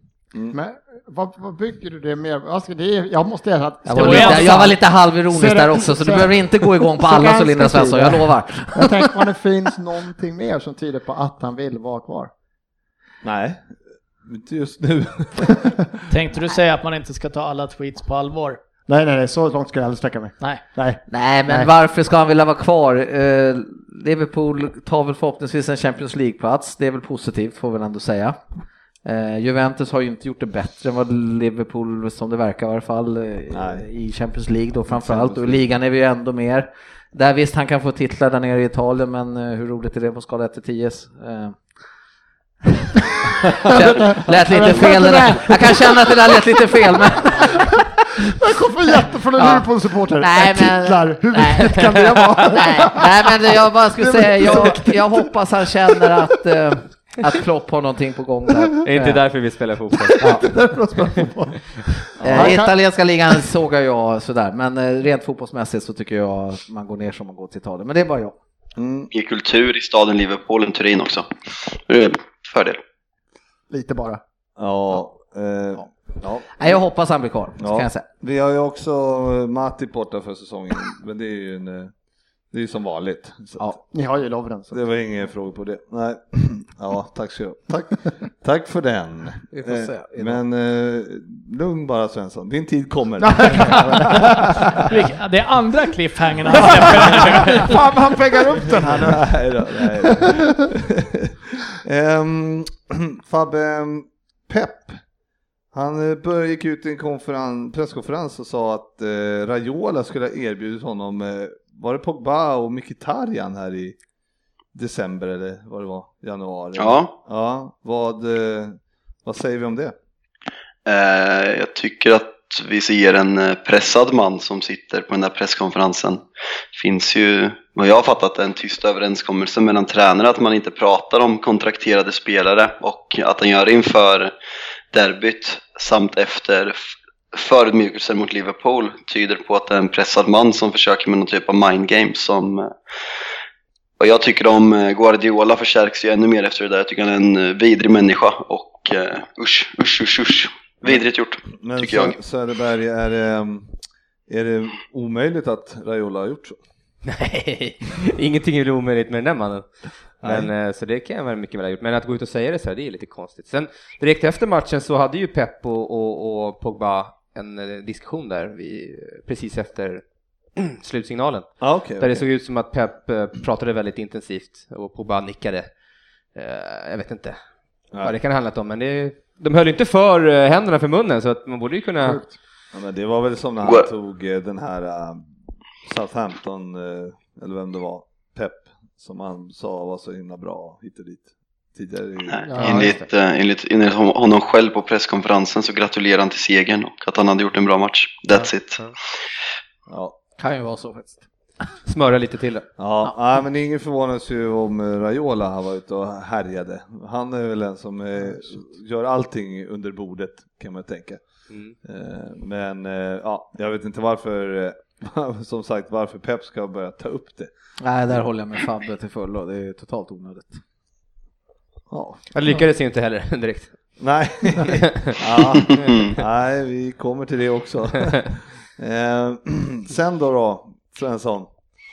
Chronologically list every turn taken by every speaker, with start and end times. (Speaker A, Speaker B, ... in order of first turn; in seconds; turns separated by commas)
Speaker A: 0.5-12.3, Speaker B: 3.9-9.3, Speaker C: 3.9-4.7, Speaker D: 13.2-13.7, Speaker D: 14.2-15.7, Speaker C: 16.1-18.6, Speaker A: 18.9-21.7, Speaker B: 21.1-28.4, Speaker B: 29.0-41.6, Speaker D: 33.5-33.9, Speaker D: 34.9-35.6, Speaker B: 43.6-47.7, Speaker A: 43.7-46.1, Speaker A: 47.4-53.3, Speaker B: 49.4-51.9, Speaker B: 52.4-59.2, Speaker A: 54.2-55.0, Speaker E: 58.8-60.3, Speaker A: 60.2-62.7, Speaker B: 60.2-60.5, Speaker D: 62.2-62.6, Speaker B: 62.2-68.4, Speaker D: 68.8-69.1, Speaker F: 69.1-72.8, Speaker A: 73.7-74.2, Speaker D: 74.6-76.7, Speaker B: 76.5-78.1, Speaker D: 77.6-81.9, Speaker D: 82.5-83.8, Speaker A: 83.9-84.8, Speaker D: 84.7-94.8, Speaker B: 89.5-90.4, Speaker A: 93.2-94.8, Speaker C: 94.8-97.7, Speaker A: 97.1-99.2, Speaker D: 98.6-105.0, Speaker A: 99.8-100.4, Speaker D: 105.7-114.0, Speaker D: 114.7-119.9, Speaker F: 116.8-117.1, Speaker F: 120.8-134.3, Speaker F: 134.9-142.7, Speaker F: 144.0-152.2, Speaker D: 150.9-153.7, Speaker D: 154.3-156.6, Speaker E: 157.1-159.7, Speaker E: 160.2-170.0, Speaker D: 160.2-160.5, Speaker E: 170.6-175.7, Speaker D: 171.6-172.2, Speaker E: 176.3-177.4, Speaker E: 178.0-182.2, Speaker A: 182.0-182.3, Speaker D: 182.7-185.3, Speaker D: 185.8-192.8, Speaker F: 192.3-198.9, Speaker A: 192.5-192.9, Speaker B: 192.5-193.0, Speaker D: 199.9-200.2, Speaker B: 200.4-201.2, Speaker E: 201.8-202.7, Speaker D: 202.8-211.2, Speaker D: 211.8-217.5, Speaker B: 217.8-220.6, Speaker D: 221.9-222.2, Speaker E: 222.3-223.8, Speaker D: 224.0-231.5, Speaker E: 224.7-225.9, Speaker F: 225.7-226.1